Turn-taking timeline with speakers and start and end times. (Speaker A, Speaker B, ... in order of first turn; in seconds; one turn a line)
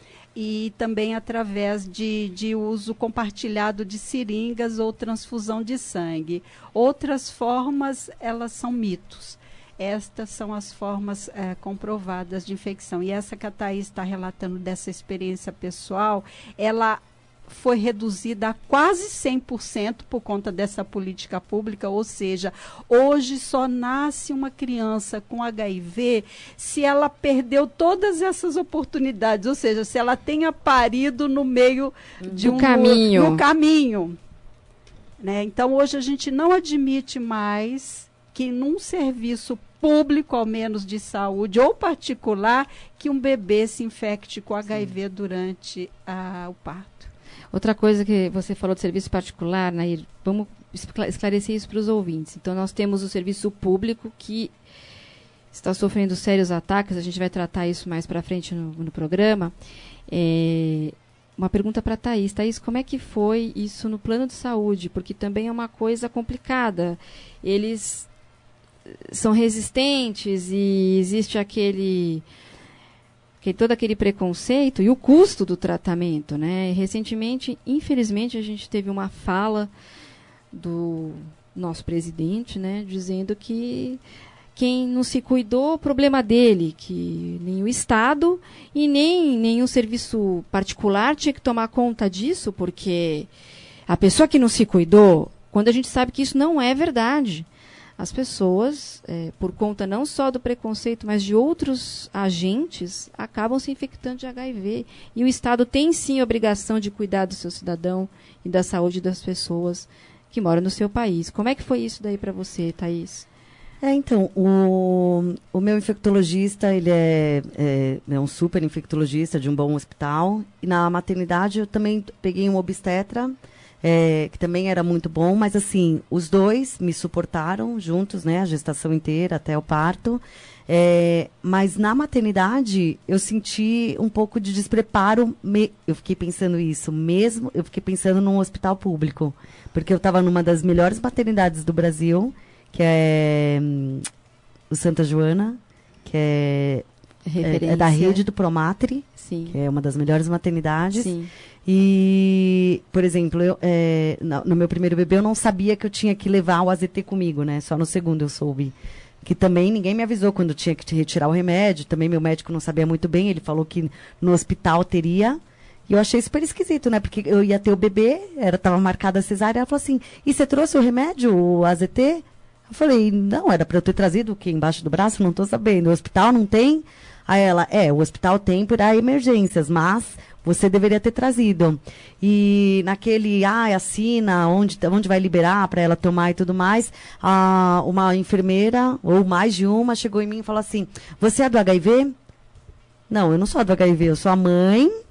Speaker A: 0.3-34.2
Speaker B: 32.2-32.6
Speaker C: 32.4-33.4
Speaker A: 35.2-47.1
Speaker C: 47.5-54.5
Speaker C: 55.5-59.5
Speaker C: 60.1-68.1
Speaker C: 69.1-72.2
Speaker C: 73.4-79.7
Speaker C: 80.5-84.0
Speaker C: 84.5-93.3
Speaker C: 93.9-97.5
Speaker C: 98.0-113.2
Speaker B: 113.8-144.1
Speaker B: 144.7-146.8
Speaker C: 147.2-148.2
Speaker B: 147.4-151.1
Speaker C: 149.2-149.6
Speaker C: 150.9-151.3
Speaker B: 151.7-192.1
Speaker B: 193.1-194.9